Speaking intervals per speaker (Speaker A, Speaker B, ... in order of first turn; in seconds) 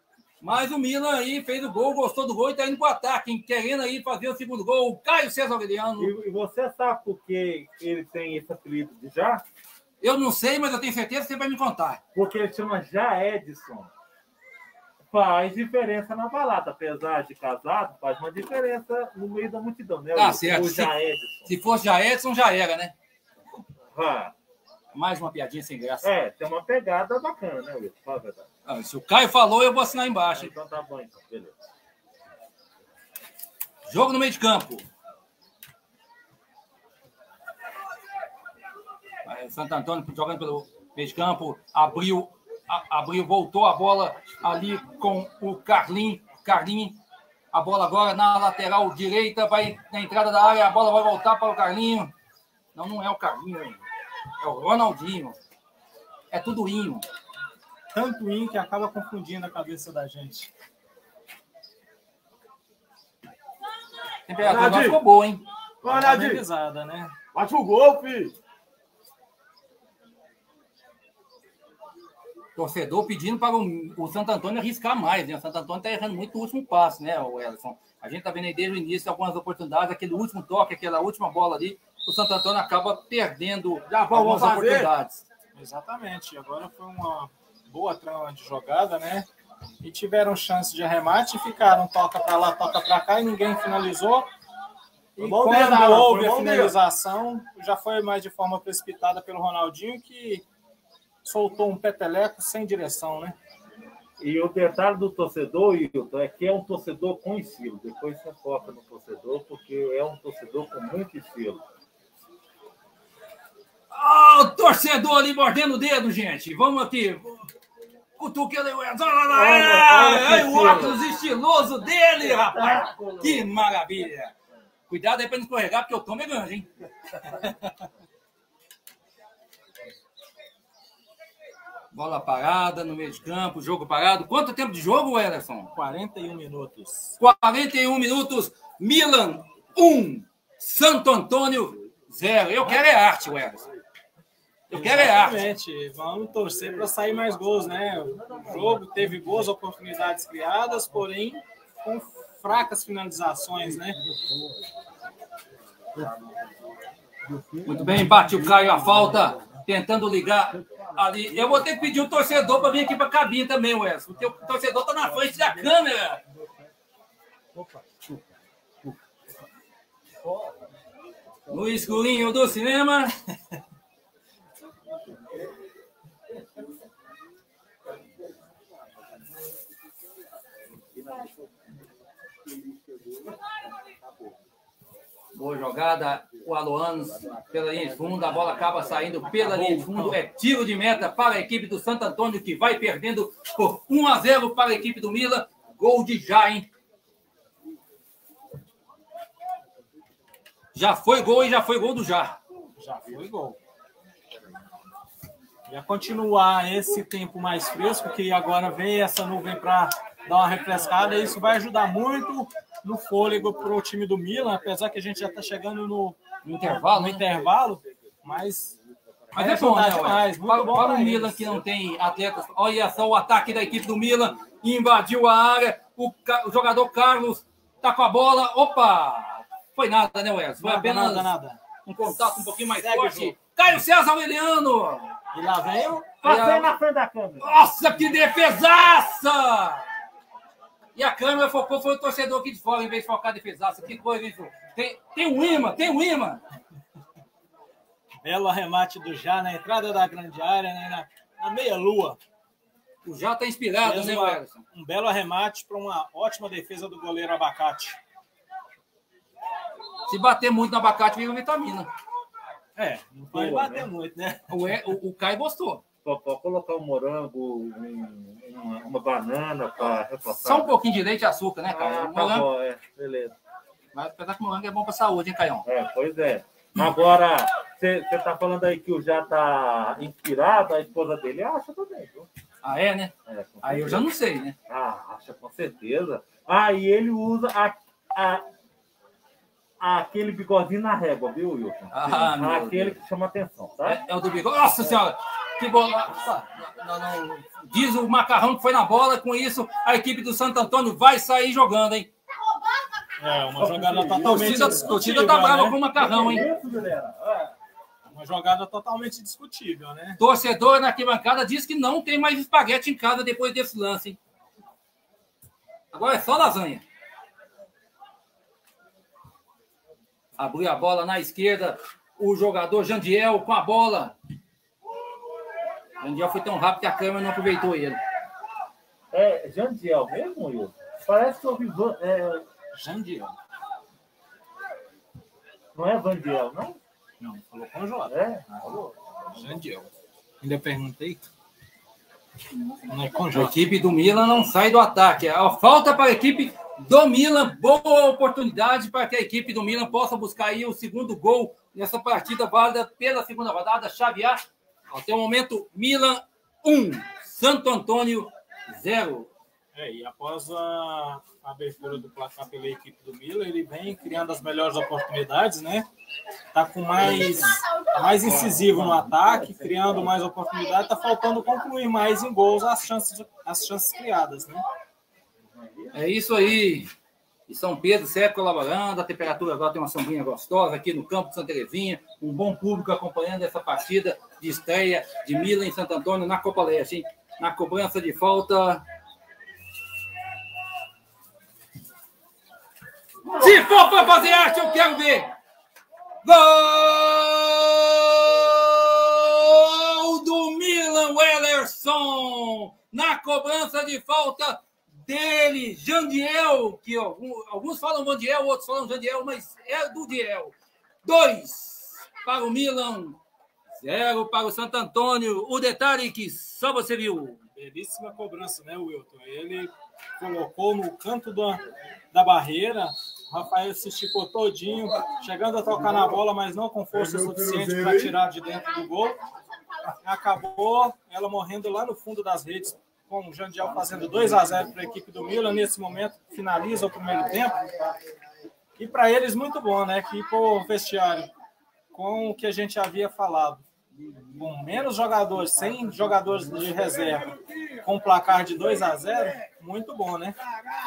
Speaker A: 0.4-6.1, 10.0-12.0, 20.1-20.9, 21.5-22.9, 24.9-26.1, 28.7-30.5, 33.9-34.9, 39.3-47.0, 47.5-52.1, 52.8-53.8, 54.4-55.4, 56.3-57.1, 64.3-65.5, 72.6-85.2, 113.9-117.5, 118.2-124.3, 124.9-126.7, 131.9-135.7, 137.2-143.7, 144.7-145.4, 157.7-166.2, 171.5-173.1, 185.3-196.7, 200.7-202.4, 216.4-217.3, 219.3-231.3, 231.8-235.1, 236.2-236.7, 237.4-239.9, 241.0-246.4, 253.0-254.6, 260.1-261.9, 264.5-265.8, 270.3-272.5, 273.9-275.6, 282.6-284.6, 291.9-293.0, 293.9-302.1, 304.2-306.4, 310.2-314.2, 315.9-316.8, 320.4-324.1, 326.0-328.0, 343.3-359.3, 375.9-376.9, 377.5-388.8, 393.4-395.3, 396.2-413.2, 413.8-417.4
Speaker B: 6.0-9.4, 12.2-13.9, 15.1-21.5, 23.9-24.3, 26.0-28.5, 30.3-31.6, 64.4-65.0, 65.8-66.4, 67.3-68.3, 95.2-96.7, 104.2-111.6, 119.3-121.0, 122.2-123.5, 157.2-159.2, 167.5-168.3, 170.2-170.6, 181.0-181.4, 236.2-237.6, 263.3-263.9, 266.1-270.8, 271.7-273.4, 275.6-282.3, 283.3-284.1, 284.7-288.5, 289.8-294.0, 303.6-304.9, 305.9-307.6, 329.1-332.4, 335.8-336.8, 338.1-338.9, 368.4-369.1, 393.3-393.6
Speaker C: 57.9-60.5, 65.8-67.1, 83.9-84.9, 85.5-89.3, 89.8-94.3, 95.2-100.5, 101.2-103.4, 135.8-137.2, 144.7-154.0, 189.2-190.2, 202.8-203.6, 205.7-218.8, 219.3-221.6, 230.6-231.6, 232.8-233.3, 235.3-236.1, 248.2-252.2, 253.8-258.0, 262.8-264.8, 303.2-305.8, 308.1-310.2, 332.7-333.4, 337.2-338.8, 339.3-341.3, 342.9-343.6, 359.7-365.9, 366.5-374.6, 417.6-429.2, 430.0-437.7, 438.8-441.3, 441.9-443.6, 444.3-450.4